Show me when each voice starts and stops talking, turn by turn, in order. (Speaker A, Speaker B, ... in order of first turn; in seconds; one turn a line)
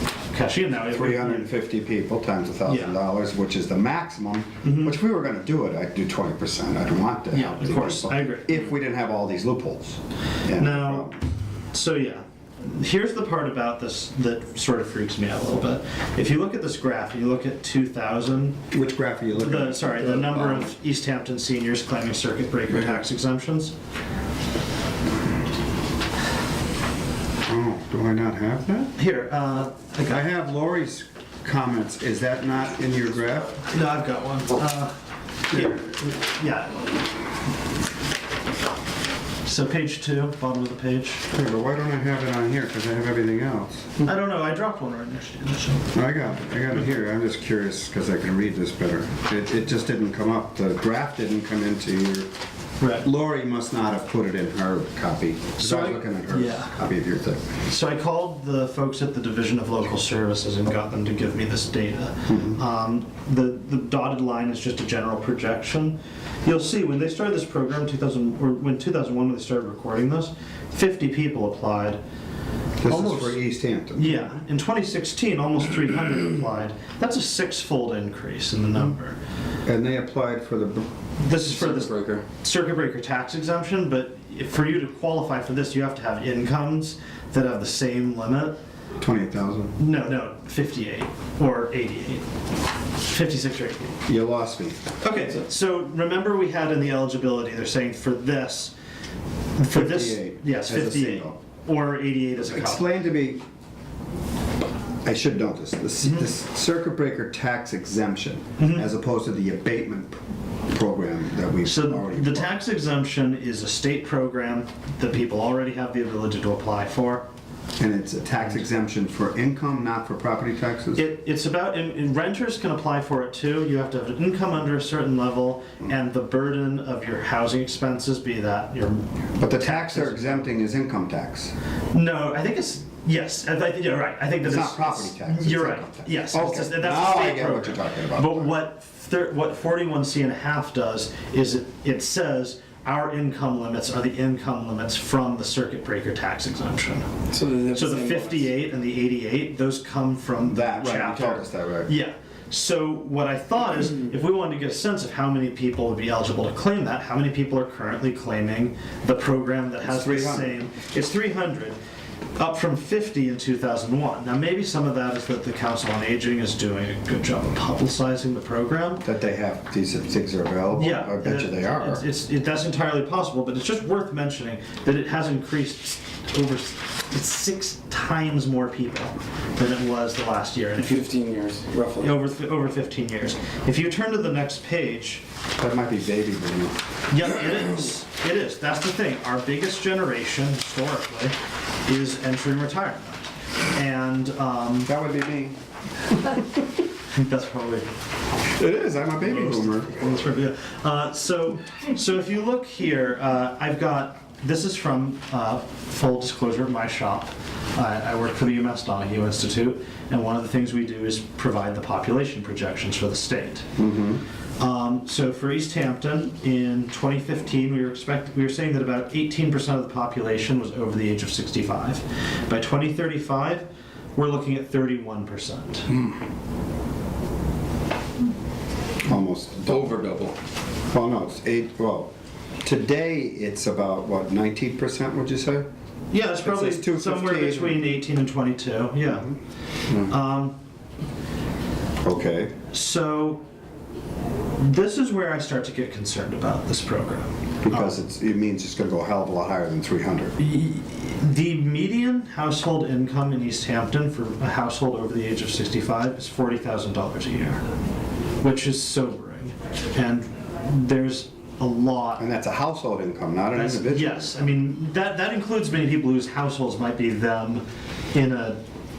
Speaker A: 0.3-1.5
Speaker B: 0.9-11.2
Speaker A: 2.6-3.0
Speaker A: 4.6-5.0
Speaker A: 7.3-8.5
Speaker A: 10.5-11.1
Speaker A: 11.7-18.6
Speaker B: 18.7-20.7
Speaker A: 19.3-23.7
Speaker B: 27.5-28.9
Speaker A: 28.9-30.2
Speaker B: 30.1-33.6
Speaker A: 33.7-34.9
Speaker A: 35.5-36.9
Speaker B: 35.5-35.8
Speaker A: 39.4-41.2
Speaker B: 41.3-44.0
Speaker A: 44.0-46.0
Speaker B: 45.9-52.3
Speaker A: 52.8-53.1
Speaker B: 53.0-57.5
Speaker A: 55.6-56.7
Speaker A: 57.6-72.0
Speaker B: 62.3-62.6
Speaker B: 72.8-74.3
Speaker A: 72.8-73.4
Speaker A: 74.0-79.2
Speaker B: 79.7-80.9
Speaker A: 81.2-88.5
Speaker C: 81.8-82.2
Speaker B: 89.0-89.7
Speaker A: 89.8-92.3
Speaker A: 93.0-94.0
Speaker B: 94.1-94.8
Speaker A: 95.0-98.7
Speaker A: 99.6-102.9
Speaker B: 99.7-101.4
Speaker B: 102.4-103.4
Speaker B: 105.0-112.5
Speaker A: 108.6-108.8
Speaker A: 111.6-117.2
Speaker B: 117.8-121.0
Speaker A: 121.0-130.4
Speaker B: 129.4-131.5
Speaker A: 131.9-147.1
Speaker B: 134.4-138.5
Speaker C: 147.3-148.5
Speaker A: 147.7-161.8
Speaker B: 150.4-151.9
Speaker B: 159.8-160.6
Speaker A: 162.3-169.0
Speaker B: 169.0-172.0
Speaker A: 170.7-181.1
Speaker C: 180.8-182.2
Speaker A: 182.0-185.2
Speaker B: 185.6-186.8
Speaker A: 187.1-194.9
Speaker B: 194.8-195.6
Speaker A: 197.1-197.9
Speaker B: 198.5-200.0
Speaker A: 199.9-213.7
Speaker B: 213.8-214.2
Speaker A: 214.6-226.0
Speaker B: 229.0-229.9
Speaker C: 229.7-230.3
Speaker B: 230.9-232.1
Speaker B: 232.6-235.7
Speaker A: 236.1-239.3
Speaker B: 236.4-237.8
Speaker A: 239.9-240.6
Speaker B: 242.0-242.6
Speaker A: 242.7-243.4
Speaker A: 244.6-247.9
Speaker B: 247.6-250.3
Speaker A: 250.4-257.6
Speaker A: 258.4-262.2
Speaker B: 262.2-264.2
Speaker A: 263.5-268.6